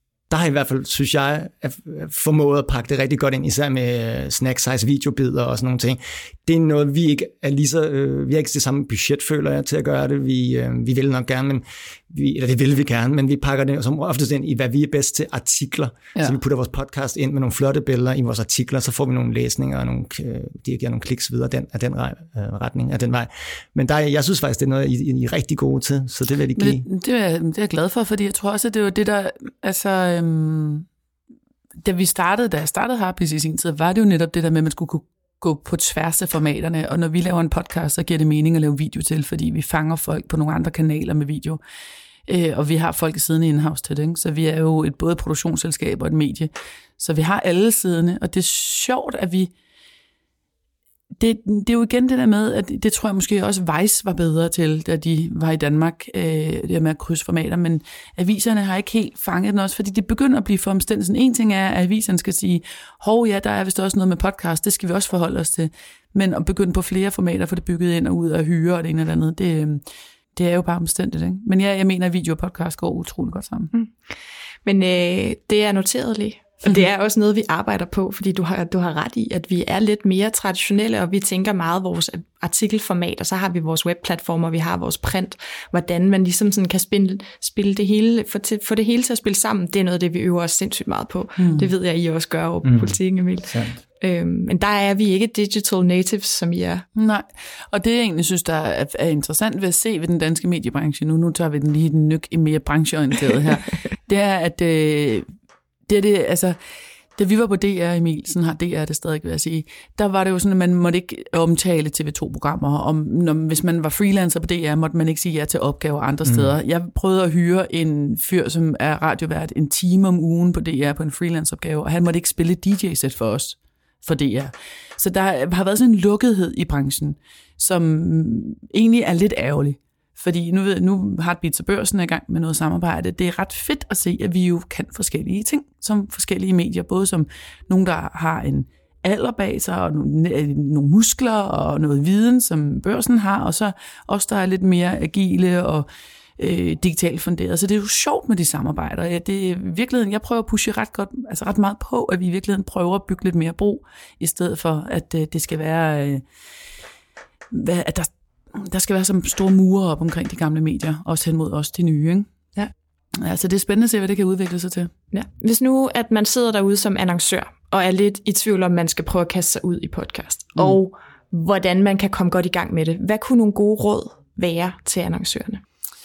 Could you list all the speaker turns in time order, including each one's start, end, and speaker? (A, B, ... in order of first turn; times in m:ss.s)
0:00.3-0:26.8 A
0:26.5-0:30.9 B
0:31.8-0:41.6 B
0:42.3-0:49.5 B
0:51.2-1:09.8 B
1:10.4-1:13.7 B
1:14.6-1:36.9 C
1:31.4-1:31.7 B
1:32.6-1:32.9 A
1:33.5-1:33.8 A
1:36.9-1:45.3 B
1:45.9-1:46.6 B
1:47.2-2:25.9 B
1:56.2-1:56.5 A
2:26.4-2:36.2 B
2:37.5-2:42.4 B
2:43.2-2:44.9 B
2:45.1-2:55.6 C